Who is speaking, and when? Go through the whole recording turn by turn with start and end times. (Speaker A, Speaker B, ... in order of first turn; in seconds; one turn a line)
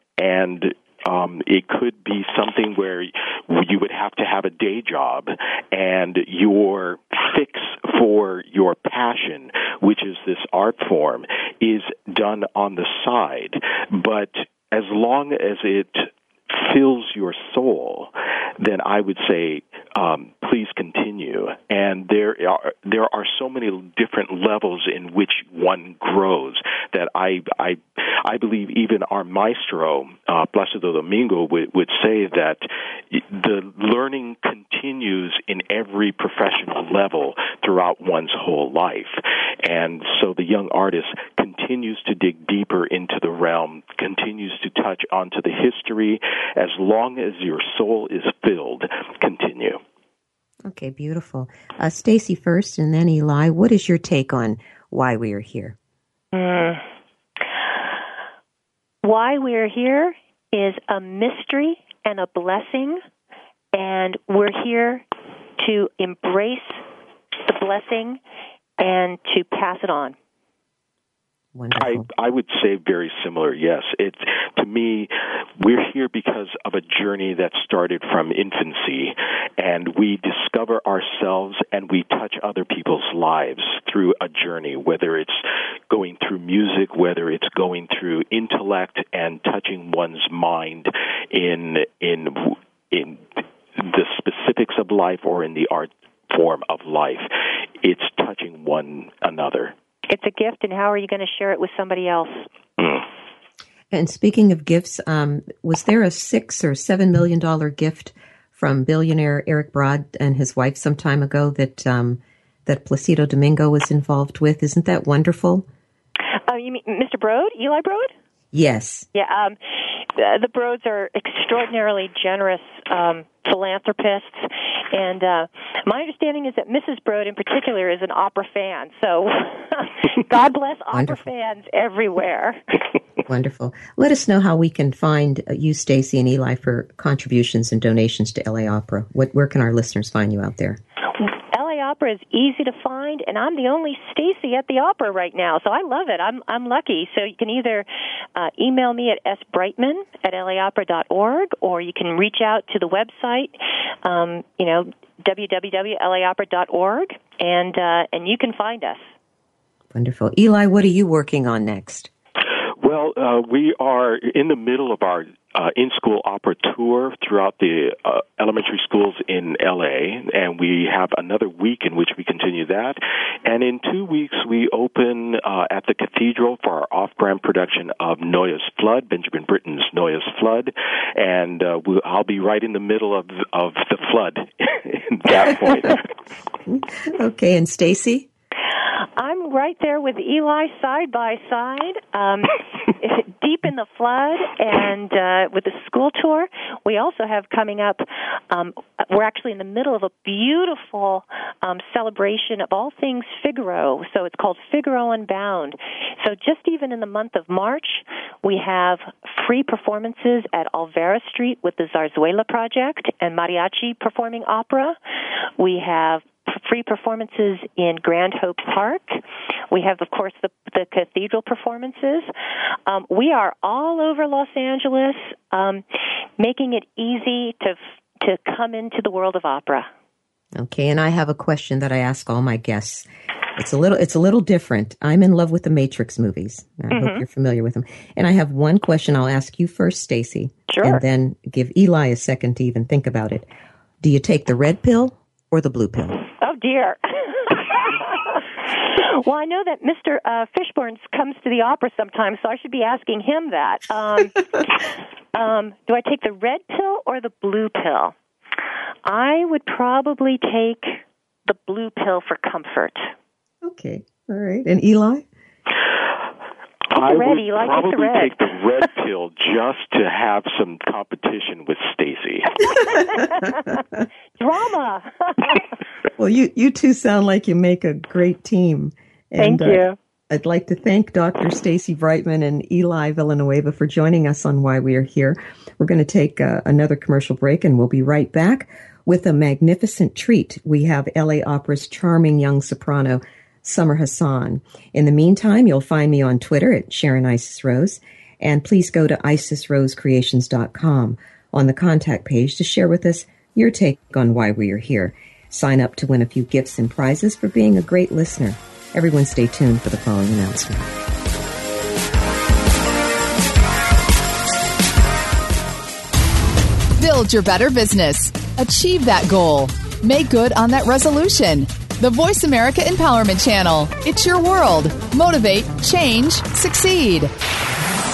Speaker A: 0.2-49.8
Speaker B: 50.6-55.8
Speaker C: 56.3-56.8
Speaker C: 59.0-63.0
Speaker C: 63.7-65.1
Speaker C: 65.6-66.8
Speaker C: 67.5-68.2
Speaker C: 68.8-70.2
Speaker B: 71.5-72.1
Speaker A: 71.8-97.3
Speaker A: 97.8-99.7
Speaker C: 100.1-102.5
Speaker A: 102.8-103.0
Speaker B: 103.9-115.7
Speaker C: 116.5-118.1
Speaker B: 118.5-119.1
Speaker C: 119.1-132.6
Speaker B: 130.9-131.2
Speaker B: 133.3-140.8
Speaker C: 141.2-153.5
Speaker C: 154.1-159.1
Speaker B: 159.9-162.1
Speaker A: 162.8-186.0
Speaker B: 186.7-188.3
Speaker C: 189.2-215.0
Speaker C: 215.6-222.3
Speaker C: 222.9-225.8
Speaker C: 226.4-229.9
Speaker B: 230.6-243.5
Speaker C: 236.9-237.2
Speaker C: 240.7-241.0
Speaker B: 244.0-246.2
Speaker C: 246.4-258.1
Speaker C: 259.1-263.1
Speaker B: 263.6-265.3
Speaker C: 266.9-268.5
Speaker A: 266.9-272.6
Speaker C: 272.9-273.8
Speaker C: 274.4-275.7
Speaker B: 276.2-310.9
Speaker C: 279.4-280.0
Speaker D: 317.0-327.3